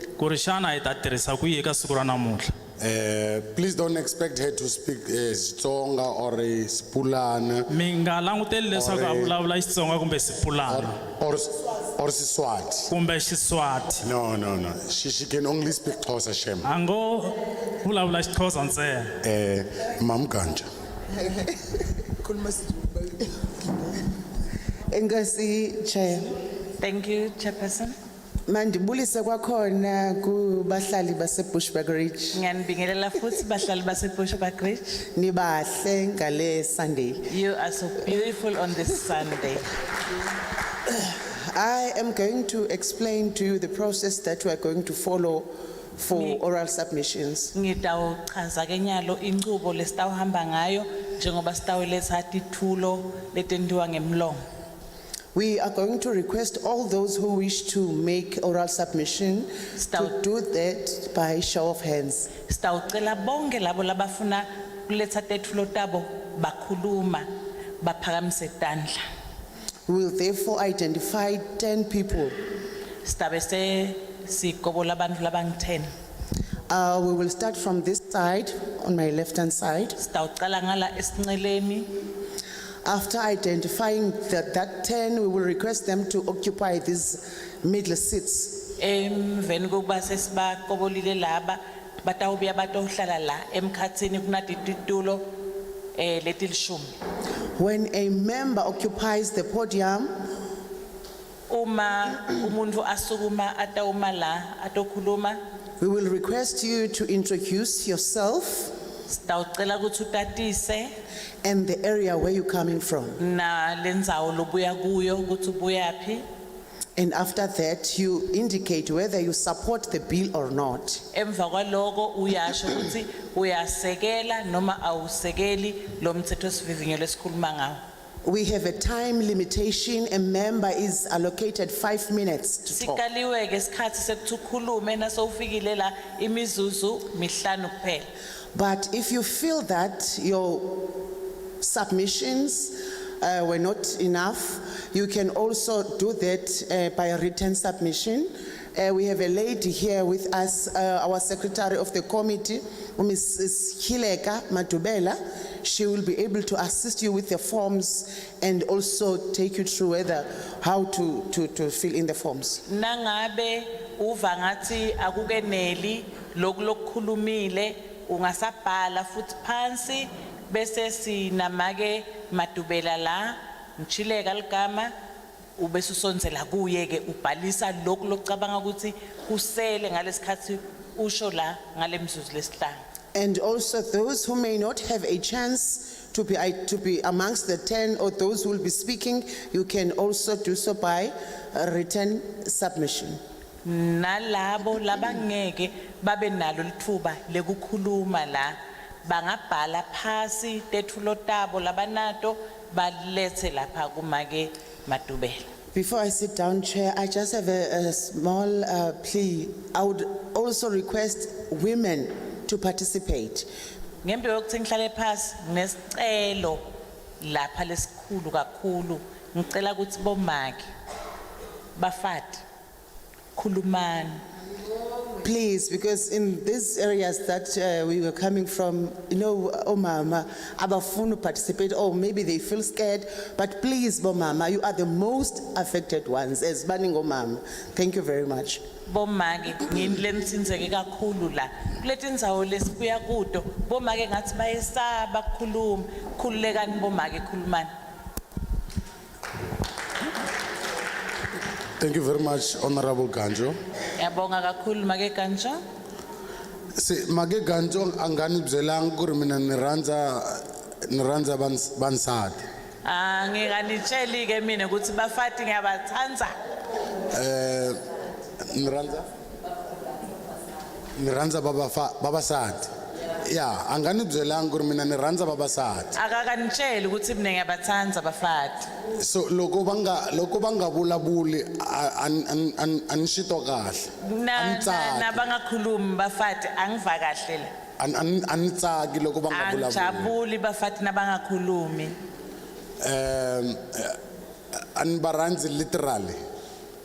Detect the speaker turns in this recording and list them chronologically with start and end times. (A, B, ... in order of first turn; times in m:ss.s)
0:00.2-0:02.5 A
0:02.8-0:07.7 B
0:07.7-0:10.9 A
0:08.7-0:09.3 B
0:10.7-0:12.9 B
0:12.9-0:14.0 A
0:14.0-0:16.7 B
0:16.6-0:19.2 A
0:19.2-0:20.7 B
0:22.2-0:22.8 C
0:24.9-0:26.4 C
0:26.8-0:27.9 D
0:28.5-0:32.4 C
0:32.3-0:35.0 D
0:35.1-0:37.3 C
0:37.3-0:39.7 D
0:41.1-0:47.5 C
0:46.1-0:46.4 D
0:47.5-0:54.4 D
0:55.3-1:02.3 C
0:59.8-1:00.1 D
1:02.4-1:07.3 D
1:07.8-1:09.0 D
1:09.9-1:12.4 C
1:13.0-1:15.9 D
1:16.7-1:20.0 C
1:20.0-1:21.9 D
1:22.8-1:28.7 C
1:28.8-1:35.3 D
1:35.9-1:36.8 D
1:37.6-1:40.1 C
1:41.5-1:45.4 D
1:45.8-1:48.7 C
1:49.1-1:50.9 D
1:51.4-1:53.2 C
1:53.2-1:56.2 D
1:57.0-2:01.0 C
2:01.1-2:07.8 D
2:08.2-2:13.0 C
2:12.7-2:18.1 D
2:18.5-2:21.1 C
2:21.6-2:42.6 C
2:42.6-2:54.9 D
2:55.6-3:02.8 D
3:03.1-3:13.2 C
3:13.6-3:25.4 D
3:25.7-3:33.5 C
3:34.0-3:36.6 D
3:37.2-3:40.6 D
3:41.8-3:42.4 D
3:43.3-3:44.2 D
3:45.2-3:58.6 C
3:58.8-4:07.7 D
4:11.8-4:13.6 B
4:14.0-4:15.6 D
4:16.8-4:22.4 B
4:22.8-4:26.3 D
4:27.1-4:27.8 B
4:28.5-4:29.0 B
4:31.0-4:32.7 B
4:33.3-4:36.0 B
4:36.0-4:38.7 D
4:39.0-4:45.2 B
4:44.0-4:47.5 D
4:47.8-4:50.1 B
4:49.3-4:51.9 D
4:52.8-4:54.0 B
4:54.7-4:56.2 B